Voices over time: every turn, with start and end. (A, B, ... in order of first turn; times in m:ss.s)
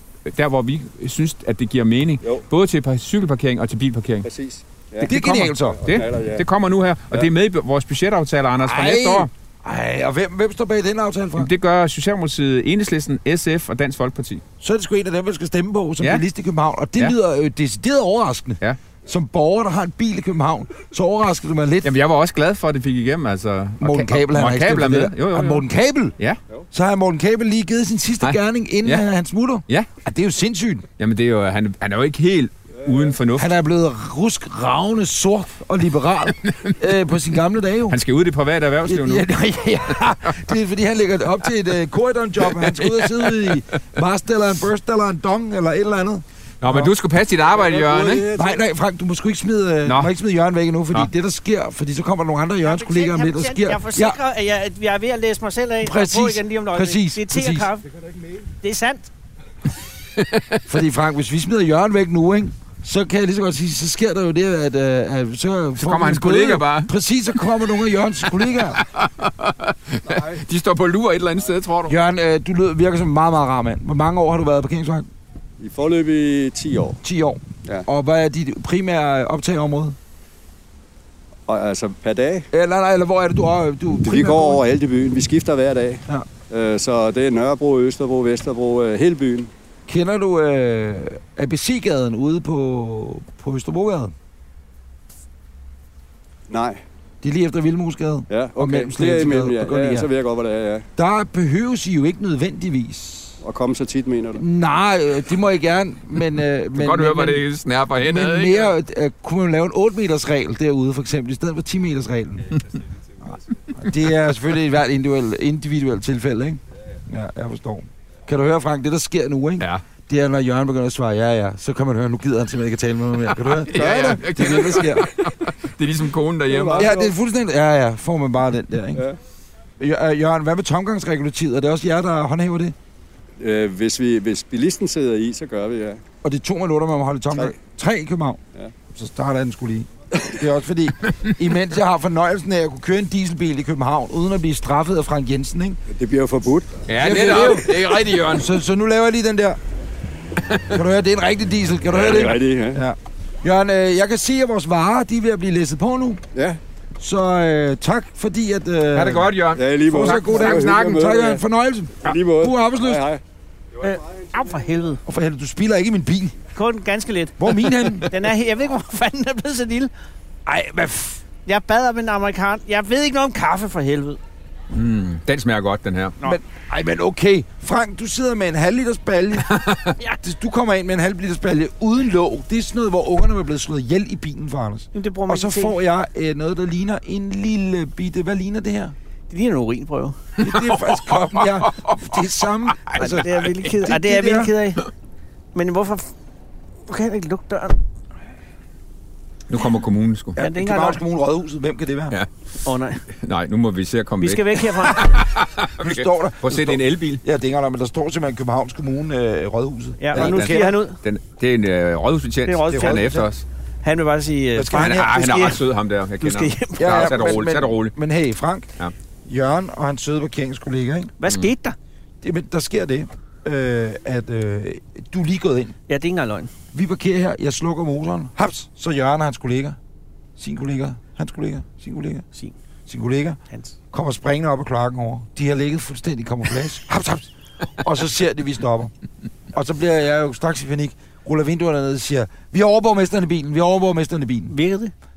0:00.2-0:04.3 A
0:04.2-0:06.4 B
0:05.0-0:09.3 A
0:05.0-0:05.8 C
0:08.6-0:11.5 C
0:11.4-0:14.4 A
0:14.6-0:21.9 C
0:21.8-0:25.6 A
0:23.8-0:26.1 C
0:26.7-0:30.9 C
0:28.2-0:29.1 A
0:31.0-0:33.5 A
0:33.3-0:38.0 C
0:36.4-0:36.8 A
0:37.9-0:39.3 A
0:38.8-0:46.9 C
0:42.4-0:43.8 A
0:46.6-0:48.3 A
0:47.5-0:48.6 B
0:48.3-0:54.2 C
0:49.8-0:50.1 A
0:52.6-0:57.9 D
0:55.8-0:57.7 C
0:58.6-0:59.1 D
1:00.2-1:00.7 A
1:00.6-1:08.8 C
1:05.8-1:06.9 A
1:08.5-1:12.0 A
1:10.1-1:10.4 B
1:11.9-1:15.1 C
1:15.6-1:17.0 B
1:17.0-1:20.0 C
1:21.5-1:22.5 B
1:22.5-1:24.6 C
1:24.0-1:29.5 B
1:29.9-1:34.1 C
1:36.5-1:36.8 B
1:37.2-1:40.1 C
1:38.3-1:40.8 B
1:41.0-1:43.4 C
1:43.4-1:44.4 B
1:44.4-1:47.4 C
1:46.7-1:48.7 A
1:48.0-1:52.6 C
1:53.8-2:05.1 C
2:03.4-2:06.9 A
2:03.7-2:04.7 B
2:06.5-2:07.1 B
2:06.8-2:09.0 C
2:09.8-2:12.7 C
2:13.4-2:16.0 B
2:16.2-2:25.8 C
2:25.9-2:26.8 B
2:26.9-2:28.5 A
2:27.0-2:29.6 C
2:30.7-2:36.2 C
2:31.9-2:32.8 B
2:36.3-2:36.6 B
2:37.0-2:43.0 C
2:38.9-2:40.8 A
2:39.5-2:41.4 B
2:42.0-2:43.2 B
2:43.8-2:45.0 D
2:43.8-2:44.3 B
2:45.0-2:46.4 C
2:46.5-2:49.9 D
2:47.4-2:48.1 C
2:50.4-2:51.2 C
2:51.4-2:54.2 D
2:54.7-2:56.2 A
2:56.2-3:08.9 C
2:59.5-2:59.9 A
3:04.9-3:05.8 D
3:09.3-3:10.2 D
3:10.4-3:14.5 C
3:10.4-3:13.3 A
3:12.9-3:14.8 D
3:15.5-3:16.1 D
3:16.8-3:17.8 D
3:19.5-3:20.4 A
3:20.4-3:21.0 D
3:20.4-3:22.2 C
3:22.6-3:23.0 D
3:23.1-3:27.2 A
3:24.2-3:25.0 D
3:25.8-3:30.8 C
3:30.0-3:31.0 D
3:30.1-3:33.4 A
3:32.4-3:33.1 D
3:32.7-3:33.3 C
3:33.8-3:35.6 D
3:34.5-3:35.2 C
3:34.8-3:37.9 A
3:36.2-3:37.4 D
3:36.8-3:38.7 C
3:39.2-3:41.1 C
3:41.2-3:41.8 D
3:42.2-3:45.8 C
3:45.9-3:46.5 D
3:46.7-3:49.8 C
3:50.4-3:52.2 C
3:52.9-3:53.4 C
3:53.9-3:58.9 C
3:59.5-4:04.5 C
4:04.5-4:04.9 D